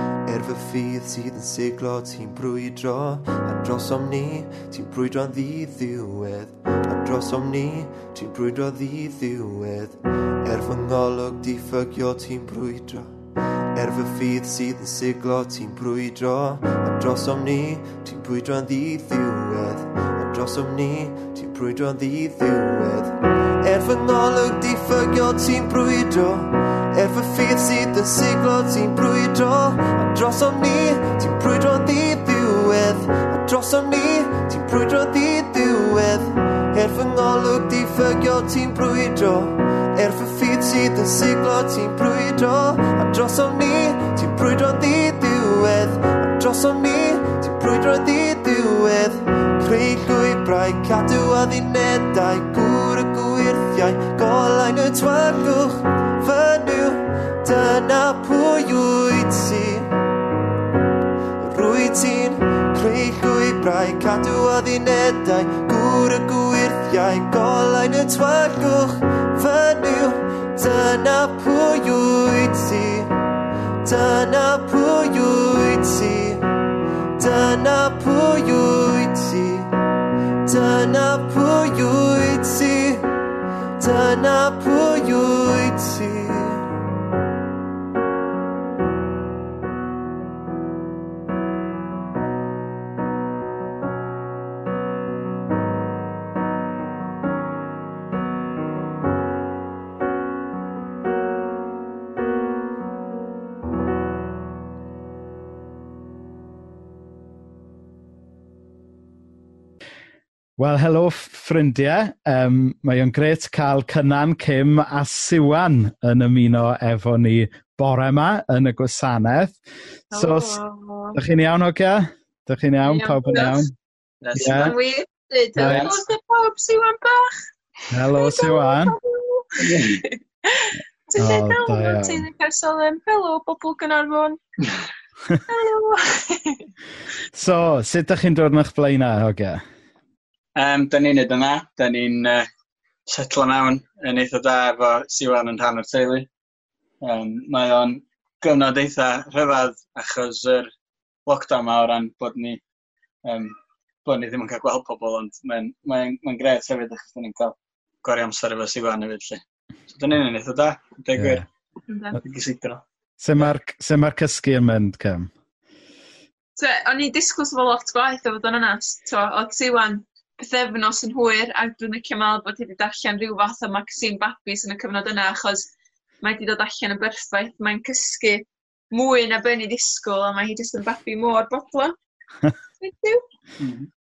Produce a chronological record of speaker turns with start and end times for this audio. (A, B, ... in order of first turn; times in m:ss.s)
0:00.2-0:13.1 A
0:13.7-0:59.9 A
1:01.4-1:13.2 A
1:13.8-1:16.5 A
1:17.2-1:19.7 A
1:20.4-1:23.1 A
1:23.8-1:26.7 A
1:50.6-1:59.6 B
2:00.1-2:00.6 B
2:00.1-2:01.2 C
2:01.1-2:03.7 B
2:02.8-2:03.7 C
2:04.2-2:04.7 D
2:04.3-2:04.7 B
2:04.4-2:07.3 C
2:05.6-2:05.9 B
2:05.6-2:05.9 D
2:07.9-2:09.0 B
2:08.1-2:14.4 C
2:09.6-2:10.0 D
2:11.2-2:12.3 B
2:15.5-2:16.7 C
2:17.3-2:19.6 B
2:20.6-2:22.5 D
2:23.1-2:26.3 D
2:27.0-2:30.7 D
2:31.2-2:32.6 D
2:33.2-2:33.5 D
2:34.0-2:41.4 D
2:41.1-2:41.4 B
2:41.9-2:42.2 C
2:42.2-2:42.8 D
2:43.2-2:45.3 B
2:46.6-2:55.7 C
2:56.2-3:02.0 C
3:02.8-3:03.2 C
3:03.6-3:03.9 D